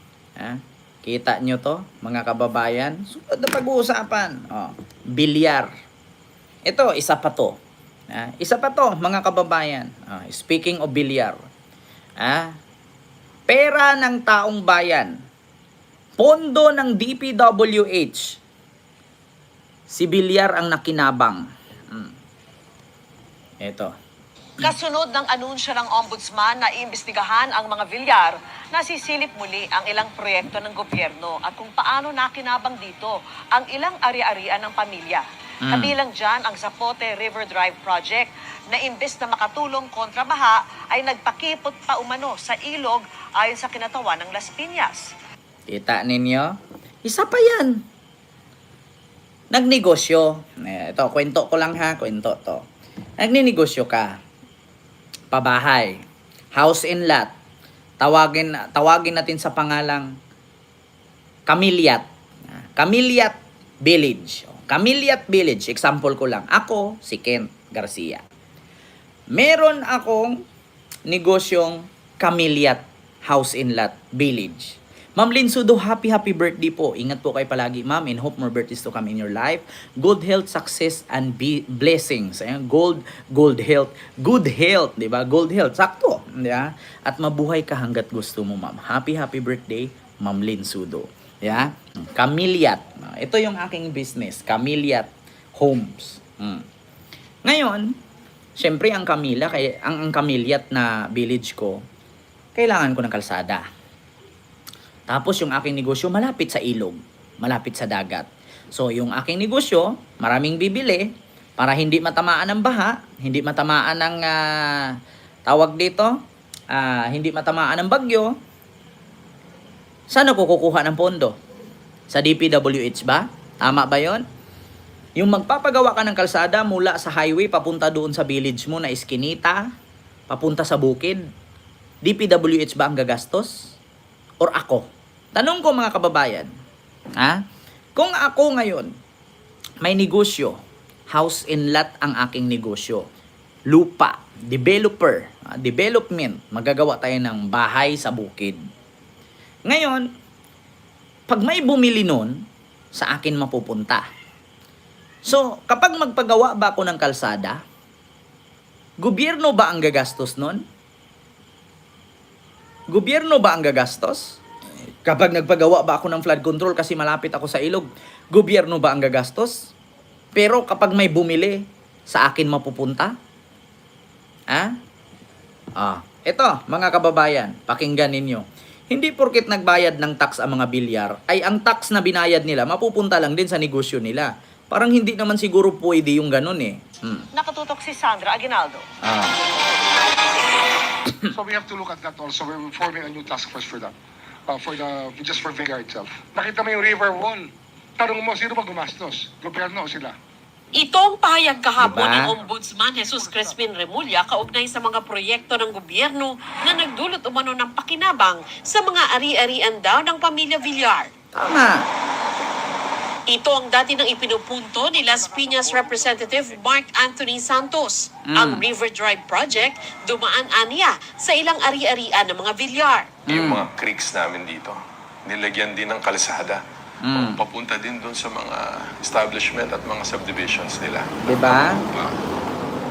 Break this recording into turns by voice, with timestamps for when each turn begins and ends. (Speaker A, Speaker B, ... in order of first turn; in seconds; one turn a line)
Speaker A: 0.4-5.7
Speaker A: 6.7-7.6
Speaker A: 8.1-11.4
Speaker A: 12.2-12.5
Speaker A: 13.5-15.1
Speaker A: 16.2-18.4
Speaker A: 19.9-22.1
Speaker A: 23.6-23.9
Speaker B: 24.6-45.1
Speaker A: 35.6-35.9
Speaker A: 45.7-47.8
Speaker A: 49.5-52.6
Speaker A: 53.2-54.2
Speaker A: 55.3-56.0
Speaker A: 56.5-57.3
Speaker A: 58.0-60.1
Speaker A: 61.5-68.2
Speaker A: 69.3-70.3
Speaker A: 71.1-96.7
Speaker A: 97.5-97.9
Speaker A: 98.6-101.8
Speaker A: 102.6-103.7
Speaker A: 105.1-114.9
Speaker A: 115.5-116.2
Speaker A: 116.7-118.3
Speaker A: 120.1-121.4
Speaker A: 122.1-124.2
Speaker A: 125.2-129.6
Speaker A: 130.3-131.2
Speaker A: 132.0-133.7
Speaker A: 134.4-136.5
Speaker A: 138.0-138.9
Speaker A: 139.8-140.6
Speaker A: 141.1-143.1
Speaker A: 143.7-148.6
Speaker A: 149.7-150.1
Speaker A: 151.3-152.3
Speaker A: 153.0-154.0
Speaker A: 155.3-157.6
Speaker A: 159.0-160.6
Speaker A: 162.9-164.4
Speaker A: 165.0-169.7
Speaker A: 170.3-173.1
Speaker A: 175.8-187.3
Speaker B: 187.3-188.8
Speaker A: 189.0-189.4
Speaker C: 191.3-193.9
Speaker C: 194.5-200.2
Speaker D: 200.8-211.1
Speaker A: 201.8-202.3
Speaker A: 211.3-211.8
Speaker D: 213.3-223.1
Speaker A: 218.3-218.6
Speaker A: 223.3-223.7
Speaker E: 223.8-224.8
Speaker E: 225.3-226.6
Speaker A: 227.0-227.4
Speaker E: 227.6-231.1
Speaker A: 231.2-231.8